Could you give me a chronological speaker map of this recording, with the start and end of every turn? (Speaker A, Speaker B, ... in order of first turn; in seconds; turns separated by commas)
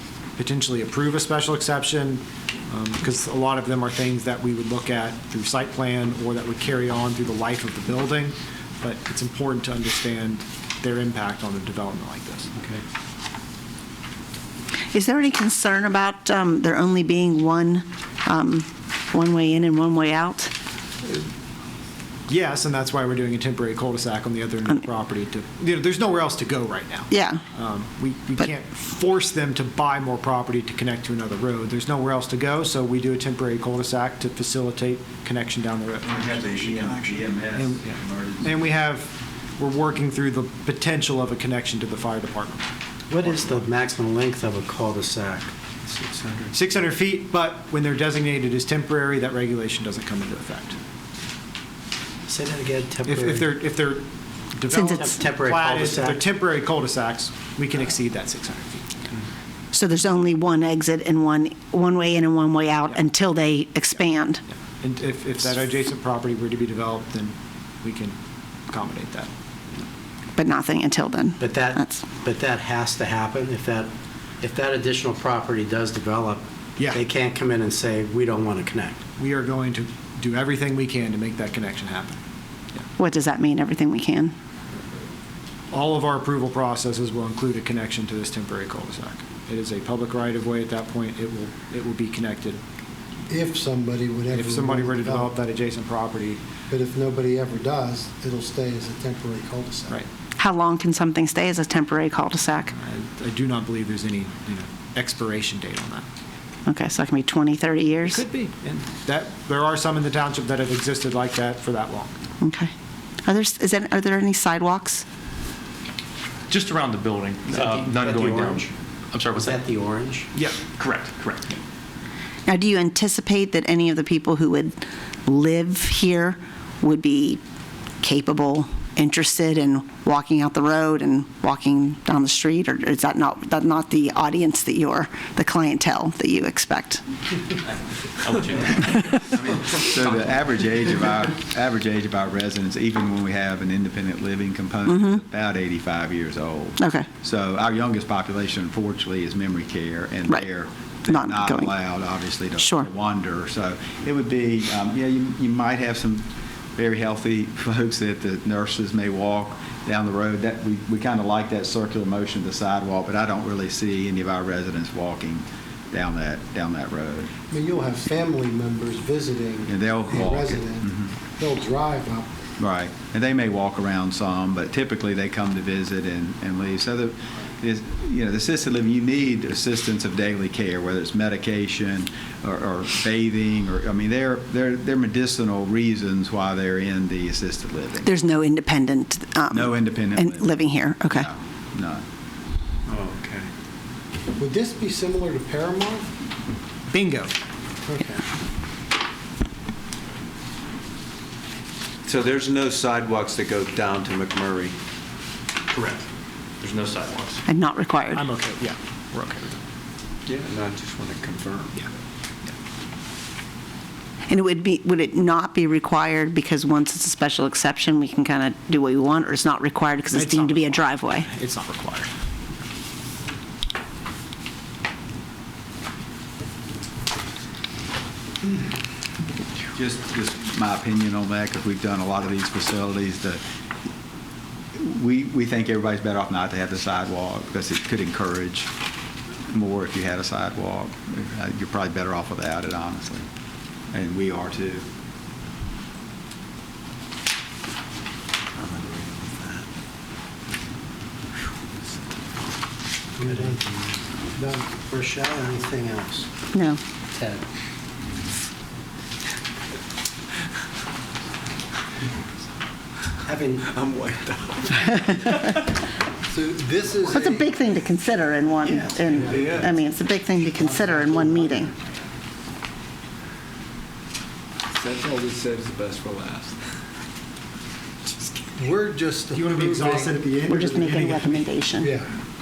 Speaker A: 0.4-12.5, Speaker B: 14.9-20.5, Speaker A: 22.3-42.6, Speaker B: 27.1-27.4, Speaker C: 36.0-38.5, Speaker D: 43.1-45.4, Speaker A: 46.5-50.8, Speaker D: 52.6-53.3, Speaker A: 53.0-58.9, Speaker B: 54.7-55.1, Speaker E: 55.0-56.1, Speaker B: 59.7-64.4, Speaker A: 64.8-68.2, Speaker A: 68.7-69.3, Speaker B: 70.3-72.1, Speaker D: 71.4-71.7, Speaker D: 72.2-73.9, Speaker D: 74.4-76.4, Speaker D: 76.9-79.0, Speaker E: 77.3-77.7, Speaker A: 79.2-82.2, Speaker B: 83.0-84.3, Speaker A: 85.7-92.6, Speaker F: 93.3-95.3, Speaker A: 94.3-96.4, Speaker F: 96.7-100.0, Speaker B: 100.4-102.7, Speaker A: 102.7-106.0, Speaker B: 106.7-108.2, Speaker A: 108.0-112.2, Speaker B: 112.4-112.7, Speaker B: 113.2-115.0, Speaker G: 116.5-119.5, Speaker E: 117.5-118.7, Speaker D: 117.5-118.6, Speaker D: 119.4-120.2, Speaker E: 119.4-119.9, Speaker G: 120.6-121.6, Speaker B: 122.5-127.4, Speaker B: 128.0-137.0, Speaker G: 138.2-140.3, Speaker C: 139.3-167.3, Speaker B: 144.8-145.2, Speaker B: 146.8-147.1, Speaker B: 151.1-151.7, Speaker B: 152.6-152.9, Speaker F: 167.5-172.3, Speaker C: 169.7-171.1, Speaker C: 172.6-188.1, Speaker B: 188.0-191.3, Speaker C: 189.5-192.0, Speaker E: 192.9-193.2, Speaker G: 193.1-193.4, Speaker F: 194.4-196.1, Speaker A: 196.9-197.3, Speaker F: 197.8-198.2, Speaker E: 202.1-202.3, Speaker G: 202.1-204.7, Speaker E: 202.9-204.4, Speaker G: 205.7-206.0, Speaker G: 206.6-207.4, Speaker B: 207.5-208.2, Speaker A: 208.1-209.6, Speaker G: 210.3-211.6, Speaker E: 210.6-211.7, Speaker B: 214.3-221.3, Speaker A: 220.1-222.1, Speaker C: 229.7-233.4, Speaker C: 234.8-238.7, Speaker C: 239.5-243.2, Speaker C: 243.9-244.8, Speaker E: 248.6-249.6, Speaker F: 253.2-253.6, Speaker F: 254.3-256.3, Speaker D: 255.1-256.1, Speaker B: 256.5-256.8, Speaker D: 257.2-257.4, Speaker D: 263.3-263.7, Speaker E: 263.8-264.6, Speaker F: 266.3-267.5, Speaker B: 267.1-271.7, Speaker F: 268.8-269.7, Speaker E: 269.3-269.6, Speaker G: 269.4-269.7, Speaker E: 274.7-276.7, Speaker F: 278.6-280.9, Speaker A: 279.3-281.2, Speaker B: 280.5-281.9, Speaker F: 281.8-282.1